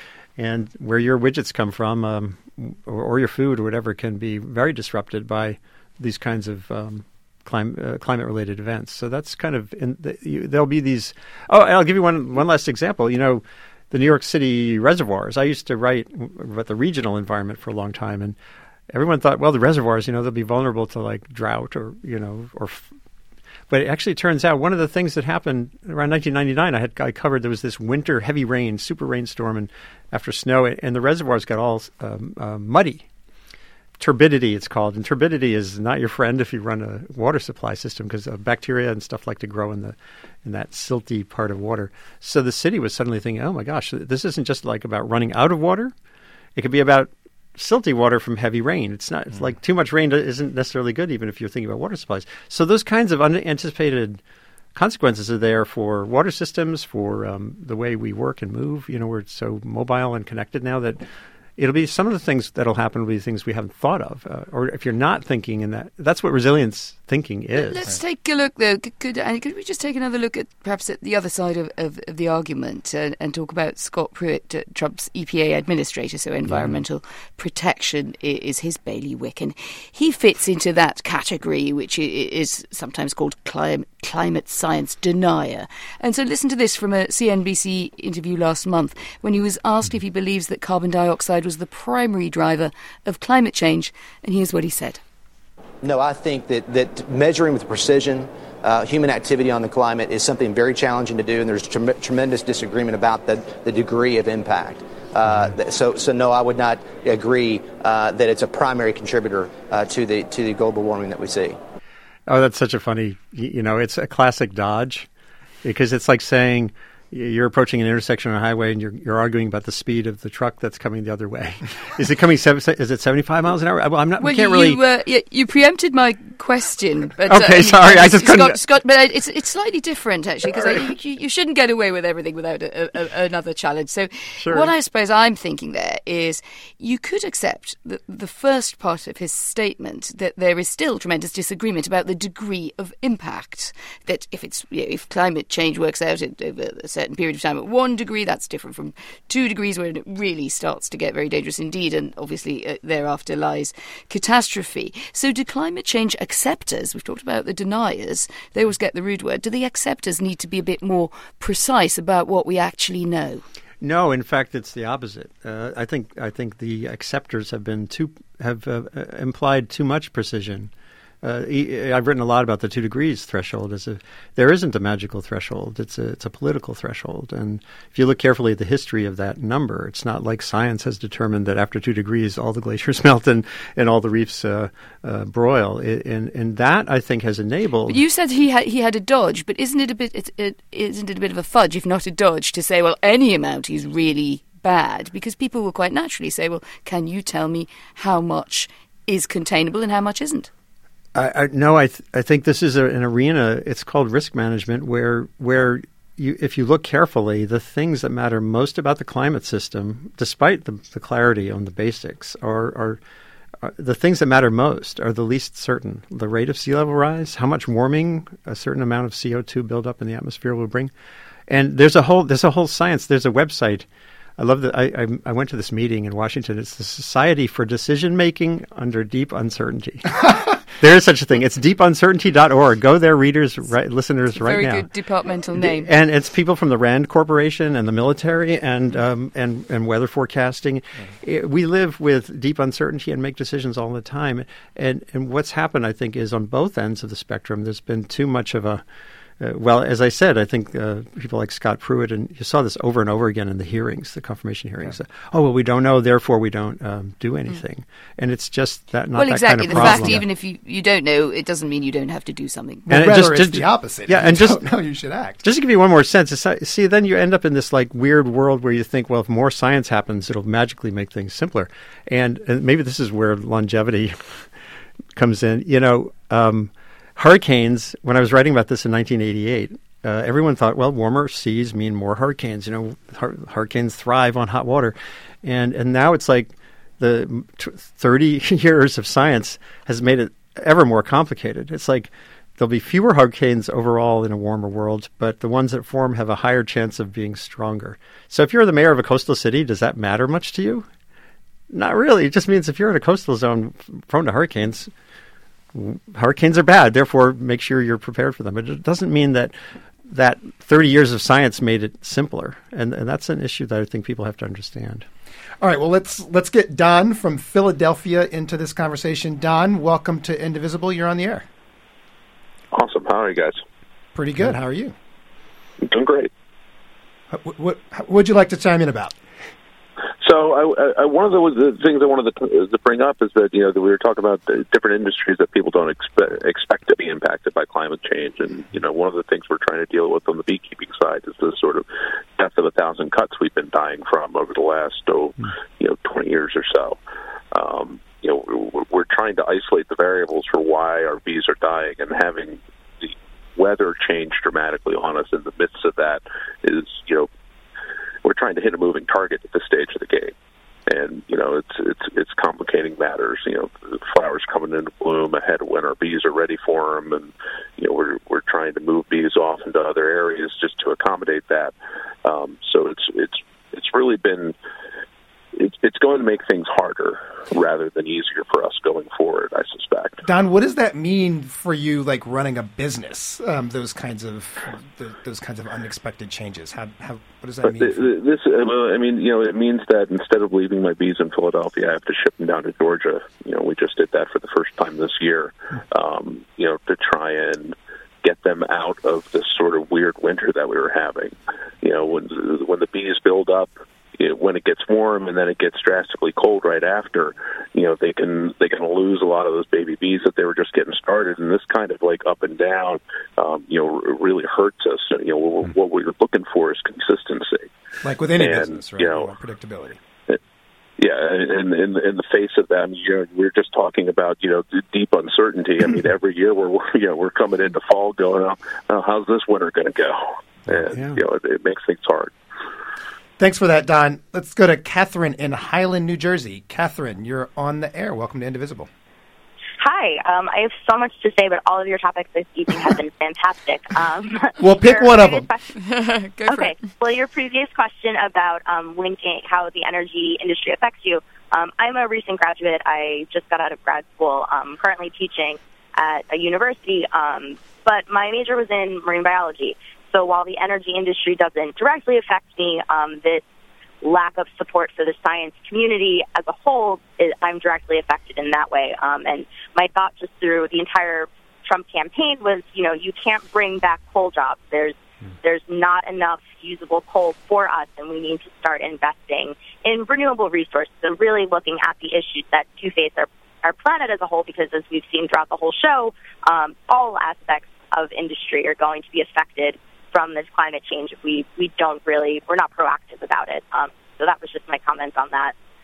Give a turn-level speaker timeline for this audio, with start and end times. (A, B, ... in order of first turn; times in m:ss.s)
0:00.4-0:18.4 A
0:18.9-0:22.9 A
0:23.7-0:33.1 A
0:34.0-0:45.9 A
0:46.6-0:54.2 A
0:54.8-1:01.0 A
1:01.6-1:08.0 A
1:07.5-1:35.0 B
1:16.4-1:16.8 A
1:35.8-1:51.6 C
1:52.3-1:55.1 A
1:55.6-2:04.8 A
2:04.2-2:43.4 B
2:07.2-2:08.6 A
2:10.5-2:10.9 A
2:14.4-2:14.7 A
2:43.8-2:50.7 A
2:51.2-3:08.0 A
3:07.9-3:20.5 B
3:21.2-3:33.0 A
3:33.6-3:40.9 A
3:41.5-3:43.9 A
3:44.4-3:50.2 A
3:50.8-3:54.9 A
3:54.3-3:55.9 B
3:55.6-4:08.8 A
4:09.4-4:20.3 A
4:19.1-4:22.9 B
4:22.9-4:25.4 D
4:22.9-4:24.6 A
4:25.4-4:34.5 A
4:35.2-5:00.9 A
5:01.7-5:04.9 A
5:05.7-5:09.5 A
5:10.1-5:15.0 A
5:15.6-5:21.4 D
5:22.7-5:23.6 E
5:24.2-5:25.0 D
5:25.8-5:26.3 E
5:27.3-5:29.2 D
5:30.2-5:41.9 E
5:42.4-5:47.0 E
5:47.5-5:57.3 E
5:58.2-6:00.3 E
6:00.9-6:11.7 E
6:12.2-6:14.6 E
6:15.6-6:20.2 E
6:20.2-6:28.1 D
6:27.6-6:57.7 E
6:58.0-7:00.0 D
6:58.4-6:59.3 E
7:01.0-7:12.3 E
7:10.7-7:11.2 A
7:13.4-7:18.9 D
7:19.8-7:25.6 F
7:24.6-7:25.5 D
7:25.7-7:26.9 B
7:26.5-7:43.4 F
7:44.0-8:15.5 F